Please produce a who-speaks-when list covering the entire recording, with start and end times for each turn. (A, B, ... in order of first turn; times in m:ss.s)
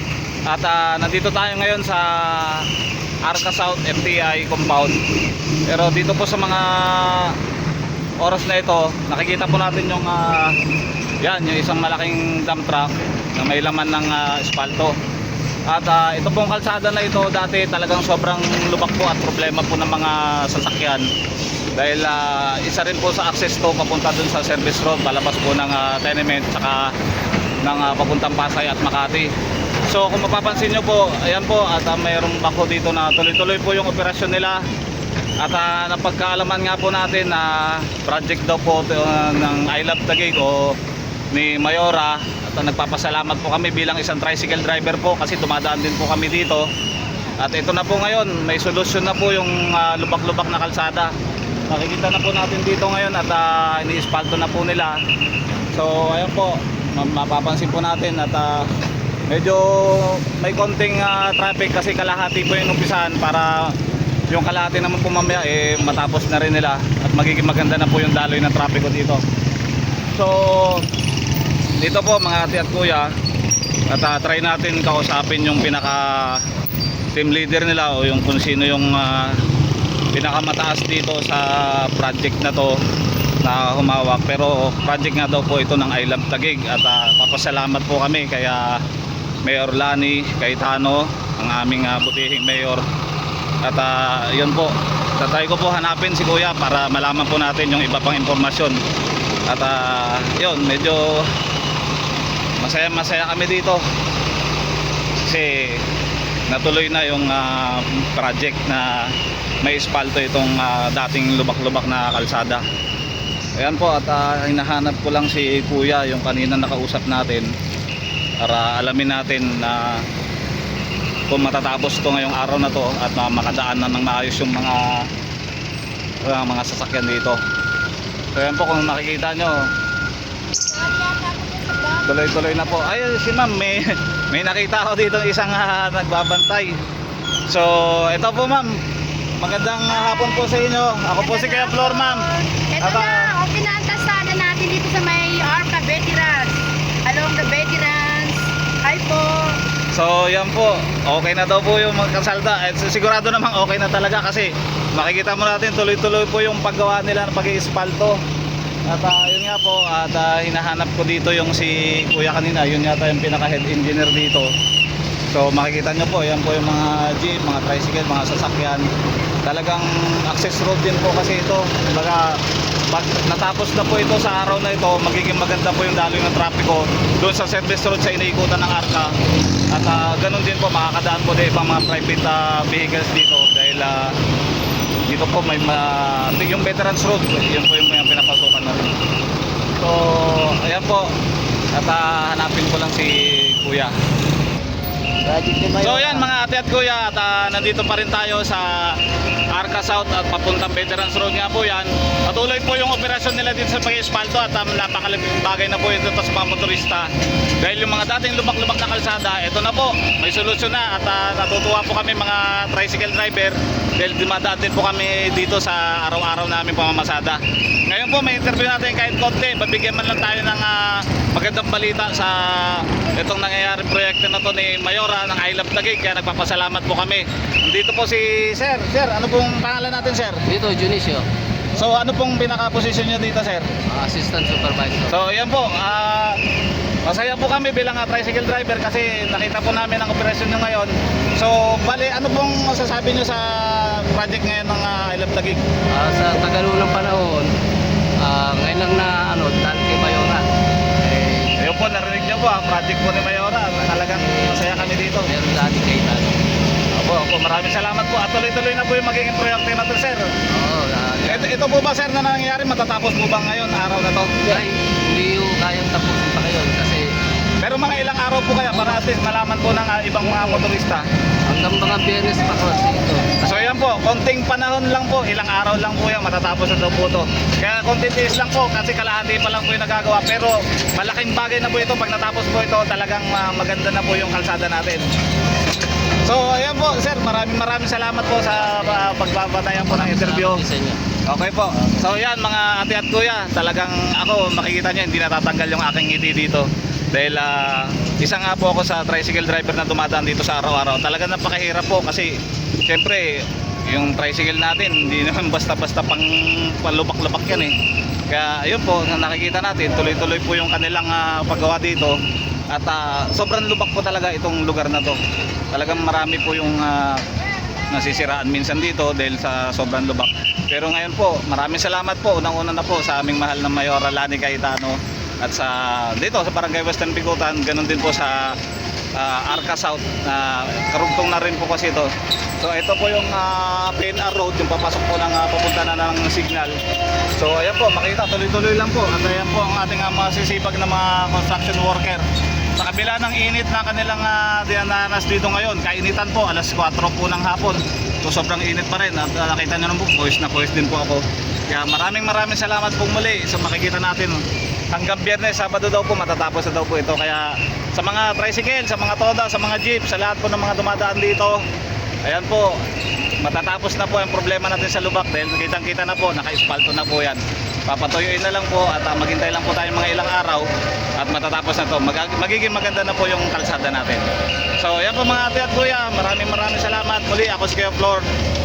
0:00.5-0:02.7 A
0:03.2-0:05.0 A
0:05.7-0:07.4 A
0:08.2-0:10.6 A
0:11.2-0:15.0 A
0:15.7-0:21.1 A
0:21.8-0:26.9 A
0:27.6-0:29.3 A
0:29.9-0:34.6 A
0:35.4-0:40.8 A
0:41.3-0:46.7 A
0:47.4-0:51.1 A
0:51.7-0:55.0 A
0:55.7-0:58.7 A
0:59.3-1:03.8 A
1:04.3-1:09.2 A
1:10.1-1:10.9 A
1:11.8-1:13.1 A
1:13.9-1:16.4 A
1:17.1-1:19.4 A
1:20.1-1:22.8 A
1:23.4-1:28.8 A
1:29.4-1:32.8 A
1:33.6-1:38.8 A
1:39.5-1:41.3 A
1:42.6-1:43.8 A
1:45.2-1:45.8 A
1:46.5-1:52.6 A
1:53.6-1:57.5 A
1:58.4-2:00.0 A
2:01.3-2:05.1 A
2:06.2-2:07.4 A
2:08.3-2:09.7 A
2:10.5-2:12.7 B
2:12.0-2:16.8 A
2:17.5-2:18.8 A
2:19.4-2:22.3 A
2:20.0-2:20.5 B
2:21.2-2:29.6 B
2:22.8-2:23.3 A
2:29.9-2:38.2 A
2:38.9-2:44.5 A
2:45.3-2:48.9 A
2:49.4-2:52.4 A
2:52.9-2:59.2 A
2:59.7-3:04.2 A
3:05.1-3:09.0 A
3:09.8-3:11.2 A
3:11.7-3:13.9 A
3:15.4-3:16.0 C
3:15.8-3:19.0 A
3:19.5-3:27.1 A
3:27.6-3:50.4 A
3:50.5-3:51.3 C
3:51.8-3:53.7 A
3:53.9-3:55.2 C
3:55.1-3:56.4 A
3:57.0-4:05.6 A
4:05.9-4:07.5 C
4:08.2-4:10.5 C
4:11.0-4:11.5 C
4:11.6-4:15.3 A
4:14.0-4:16.5 C
4:16.9-4:20.3 A
4:20.5-4:21.6 C
4:21.2-4:24.6 A
4:24.4-4:27.1 C
4:27.6-4:31.1 A
4:31.5-4:33.3 C
4:33.4-4:45.1 A
4:46.2-4:50.6 A
4:48.4-4:51.0 C
4:51.3-5:07.8 A
5:08.3-5:12.2 A
5:12.7-5:15.2 A
5:15.7-5:17.2 A
5:17.9-5:28.6 A
5:29.2-5:36.8 A
5:37.4-5:42.2 A
5:42.8-6:01.6 A
6:02.2-6:02.8 A
6:03.4-6:18.3 A